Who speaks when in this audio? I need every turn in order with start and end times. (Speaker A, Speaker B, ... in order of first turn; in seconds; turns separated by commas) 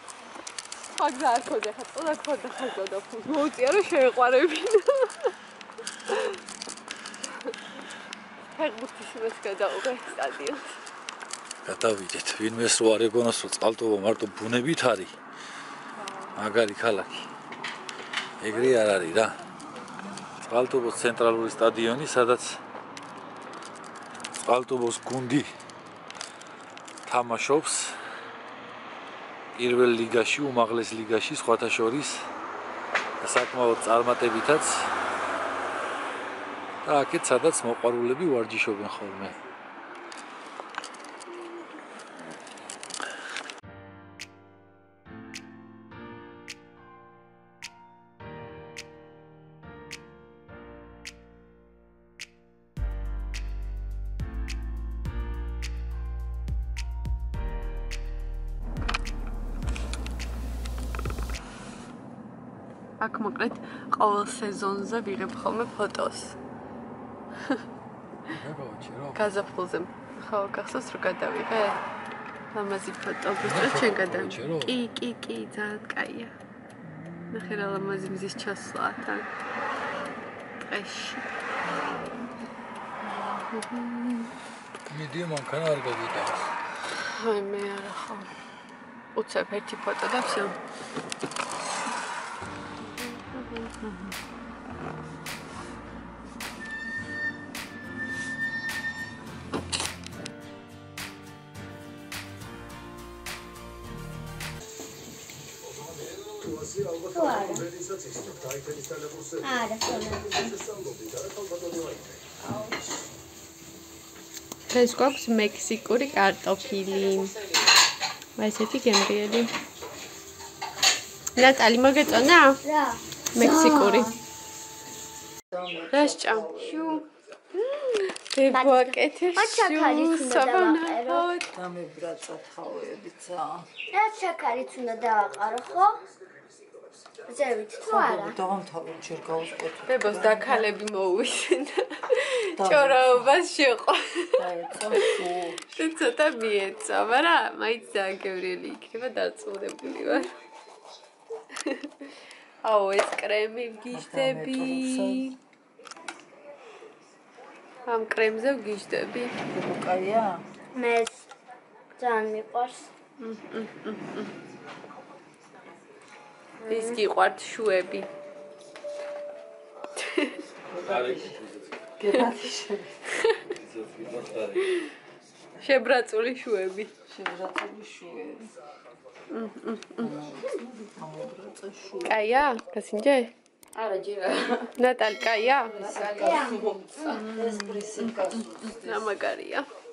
Speaker A: 0.9-5.3, Speaker A: 6.0-6.4, Speaker A: 7.3-7.5, Speaker A: 8.5-10.8, Speaker B: 11.7-15.2, Speaker A: 16.0-16.4, Speaker B: 16.4-17.3, Speaker B: 18.4-19.4, Speaker B: 20.4-22.6, Speaker B: 24.4-25.5, Speaker B: 27.1-28.0, Speaker B: 29.6-32.2, Speaker B: 33.2-34.9, Speaker B: 36.8-39.4, Speaker A: 63.0-66.4, Speaker B: 68.3-69.3, Speaker A: 69.2-71.8, Speaker A: 72.5-76.3, Speaker B: 73.4-74.7, Speaker C: 77.0-77.6, Speaker A: 77.3-79.3, Speaker A: 80.6-81.2, Speaker C: 81.7-82.1, Speaker A: 83.2-84.3, Speaker B: 84.9-86.5, Speaker A: 87.2-88.3, Speaker A: 89.2-90.6, Speaker A: 93.0-94.1, Speaker D: 107.0-107.7, Speaker D: 109.4-110.8, Speaker A: 114.7-117.4, Speaker A: 118.4-119.5, Speaker A: 121.4-122.6, Speaker D: 122.6-124.2, Speaker A: 123.3-124.2, Speaker C: 125.5-126.9, Speaker A: 125.9-127.0, Speaker A: 127.5-131.5, Speaker D: 128.5-131.3, Speaker C: 131.5-133.8, Speaker D: 133.9-136.0, Speaker D: 137.2-138.4, Speaker C: 137.8-140.8, Speaker A: 139.9-150.3, Speaker C: 142.6-143.3, Speaker C: 144.4-145.6, Speaker A: 151.6-155.4, Speaker C: 153.9-155.3, Speaker A: 157.9-159.3, Speaker C: 159.5-160.5, Speaker D: 160.7-161.3, Speaker D: 161.9-162.9, Speaker A: 163.2-164.4, Speaker A: 166.7-168.1, Speaker A: 170.0-170.4, Speaker C: 170.7-171.4, Speaker B: 170.7-172.0, Speaker C: 172.0-173.0, Speaker A: 173.1-173.4, Speaker B: 173.4-174.9, Speaker A: 175.6-176.9, Speaker C: 177.1-178.5, Speaker A: 179.3-180.2, Speaker C: 180.0-182.2, Speaker A: 182.1-183.3, Speaker C: 183.8-184.8, Speaker A: 184.8-186.1, Speaker C: 185.5-189.0, Speaker D: 186.2-186.6, Speaker A: 187.0-189.7